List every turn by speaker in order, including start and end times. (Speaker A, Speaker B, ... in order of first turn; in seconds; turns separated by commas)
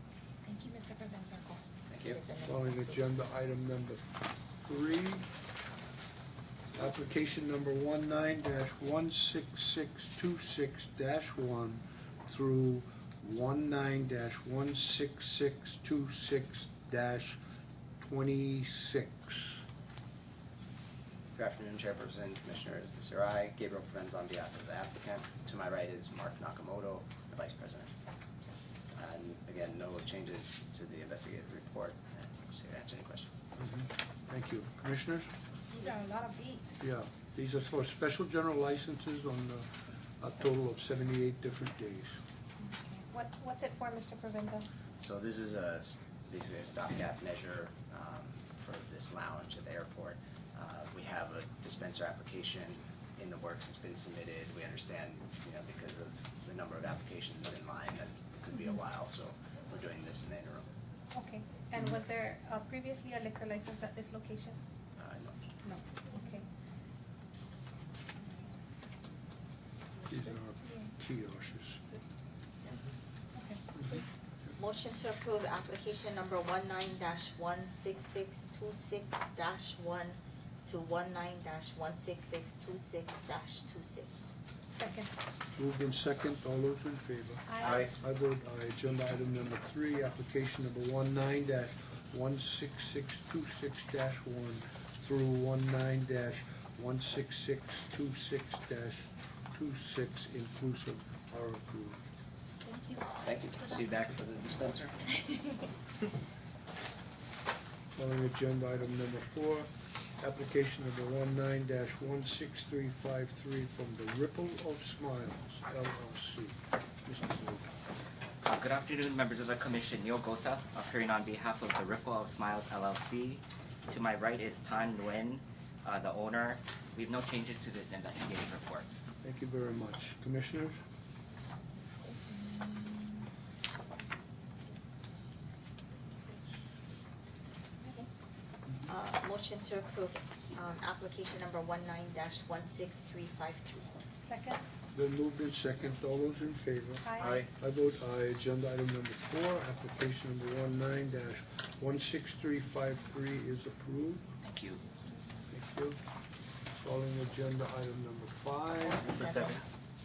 Speaker A: 0.5-1.6, Speaker B: 1.9-2.2, Speaker C: 2.0-3.0, Speaker D: 2.4-5.3, Speaker D: 6.8-17.4, Speaker D: 18.0-19.6, Speaker B: 21.4-27.9, Speaker B: 28.9-33.4, Speaker D: 33.6-35.3, Speaker A: 35.7-36.8, Speaker D: 36.8-42.2, Speaker A: 42.6-44.7, Speaker B: 45.0-60.7, Speaker A: 61.1-64.6, Speaker B: 65.0-65.4, Speaker A: 65.6-66.5, Speaker A: 68.2-68.5, Speaker D: 70.1-71.9, Speaker A: 70.6-70.9, Speaker A: 73.3-73.6, Speaker C: 74.6-84.3, Speaker A: 84.7-85.1, Speaker D: 85.6-102.0, Speaker A: 87.5-87.9, Speaker B: 87.6-87.9, Speaker A: 102.7-103.1, Speaker B: 103.2-105.0, Speaker D: 108.0-117.7, Speaker E: 118.4-128.9, Speaker D: 129.2-130.8, Speaker C: 138.9-144.0, Speaker A: 144.2-144.7, Speaker D: 144.9-154.3, Speaker A: 147.0-147.4, Speaker B: 147.2-147.5, Speaker E: 154.4-154.8, Speaker D: 155.5-156.0, Speaker D: 156.8-159.1, Speaker C: 158.8-159.6, Speaker B: 159.1-159.6